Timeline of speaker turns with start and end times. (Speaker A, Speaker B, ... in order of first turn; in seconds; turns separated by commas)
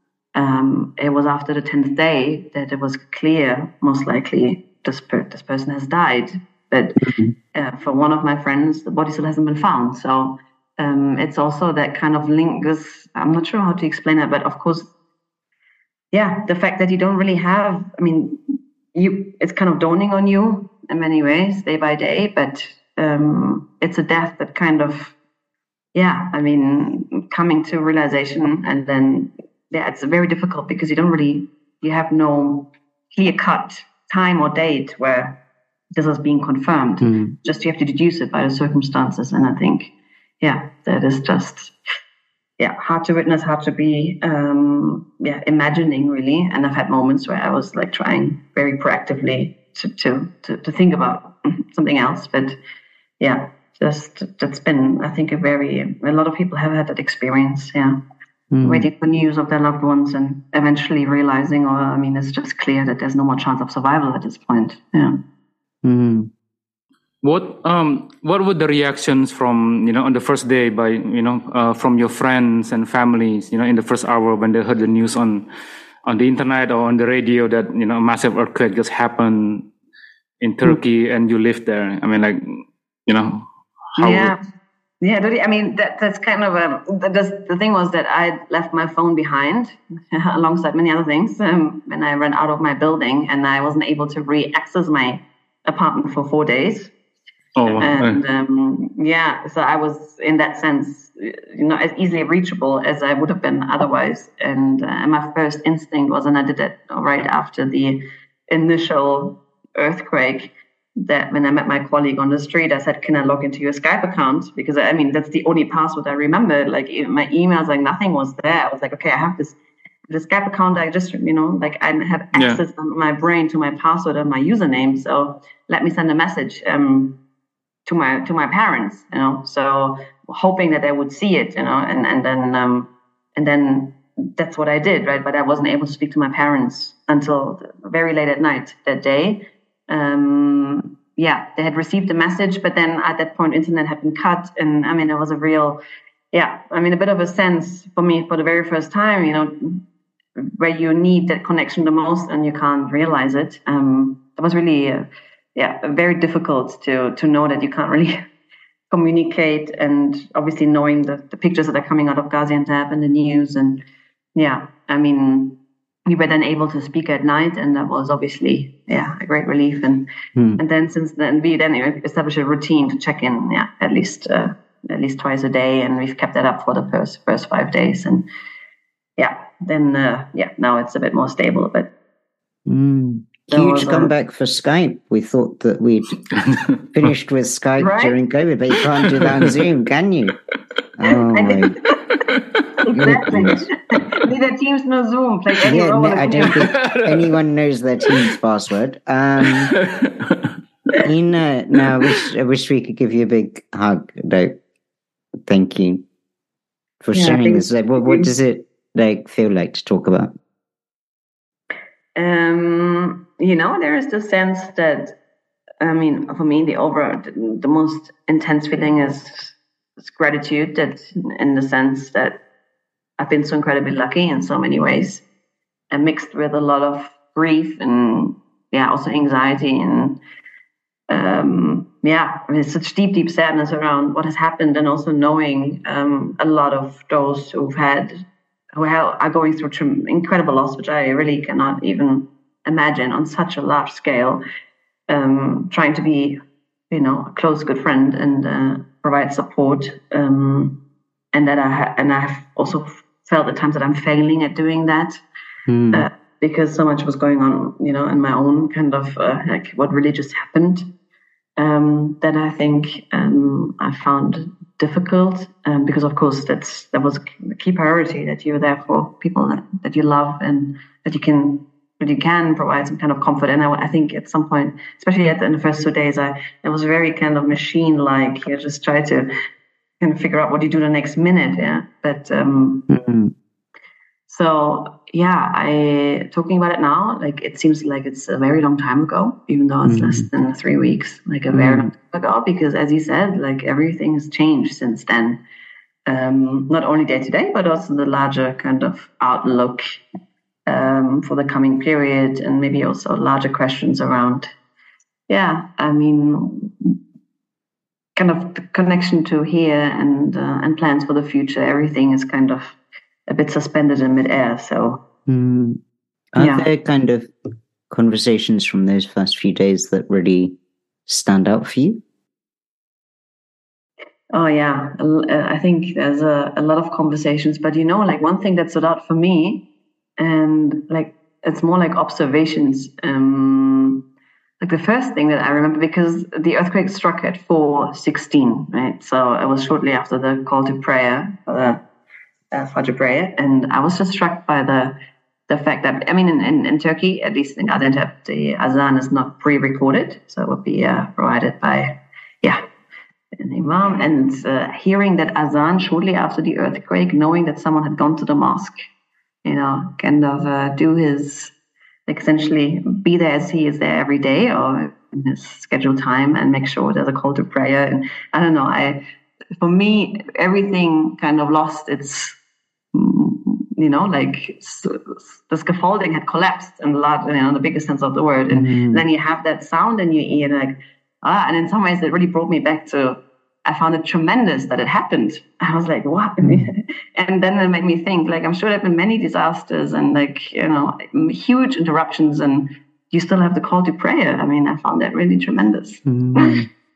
Speaker A: 0.3-14.9, Speaker B: 7.0-7.3, Speaker A: 16.1-18.4, Speaker A: 18.9-25.1, Speaker A: 25.9-35.4, Speaker A: 36.0-41.8, Speaker B: 37.0-37.4, Speaker A: 42.6-52.6, Speaker A: 53.2-58.0, Speaker B: 58.5-58.9, Speaker A: 58.6-65.2, Speaker B: 65.8-66.3, Speaker C: 67.2-75.5, Speaker C: 76.1-79.7, Speaker C: 80.4-83.5, Speaker C: 84.0-84.3, Speaker A: 84.0-84.4, Speaker A: 85.0-96.9, Speaker C: 97.6-98.2, Speaker A: 97.8-119.6, Speaker A: 120.1-127.2, Speaker C: 122.3-122.6, Speaker A: 127.9-149.8, Speaker A: 150.4-158.2, Speaker A: 158.9-178.3, Speaker A: 179.2-181.9, Speaker B: 182.7-186.2, Speaker A: 183.5-184.1, Speaker C: 186.4-186.7, Speaker B: 186.9-190.3, Speaker A: 187.8-188.2, Speaker B: 191.0-191.8, Speaker A: 191.3-191.9, Speaker A: 192.8-196.7, Speaker B: 193.0-193.7, Speaker B: 195.6-199.7, Speaker C: 196.4-197.3, Speaker C: 199.7-200.5, Speaker B: 201.0-204.6, Speaker B: 205.4-206.0, Speaker B: 207.0-210.4, Speaker A: 207.1-208.3, Speaker A: 212.2-215.2, Speaker A: 215.8-222.4, Speaker A: 223.2-225.2, Speaker A: 225.9-230.2, Speaker A: 231.1-238.2, Speaker A: 238.8-244.4, Speaker A: 245.1-250.8, Speaker A: 251.3-255.2, Speaker B: 255.7-256.1, Speaker A: 255.9-260.9, Speaker A: 261.6-279.3, Speaker A: 280.0-282.9, Speaker B: 282.9-283.3, Speaker A: 284.3-295.4, Speaker B: 289.9-290.2, Speaker B: 291.5-291.9, Speaker A: 296.1-299.8, Speaker A: 300.7-304.5, Speaker A: 305.3-307.0, Speaker A: 308.2-315.0, Speaker B: 315.3-315.8, Speaker B: 316.3-317.3, Speaker A: 316.4-316.7, Speaker B: 317.9-322.0, Speaker A: 324.3-329.7, Speaker A: 330.2-334.0, Speaker A: 334.6-341.8, Speaker A: 342.5-345.0, Speaker A: 345.5-352.6, Speaker A: 353.4-358.8, Speaker A: 359.4-361.5, Speaker A: 362.1-369.0, Speaker A: 369.6-372.4, Speaker A: 372.9-396.5, Speaker B: 378.5-379.0, Speaker B: 386.4-386.7, Speaker B: 396.1-396.7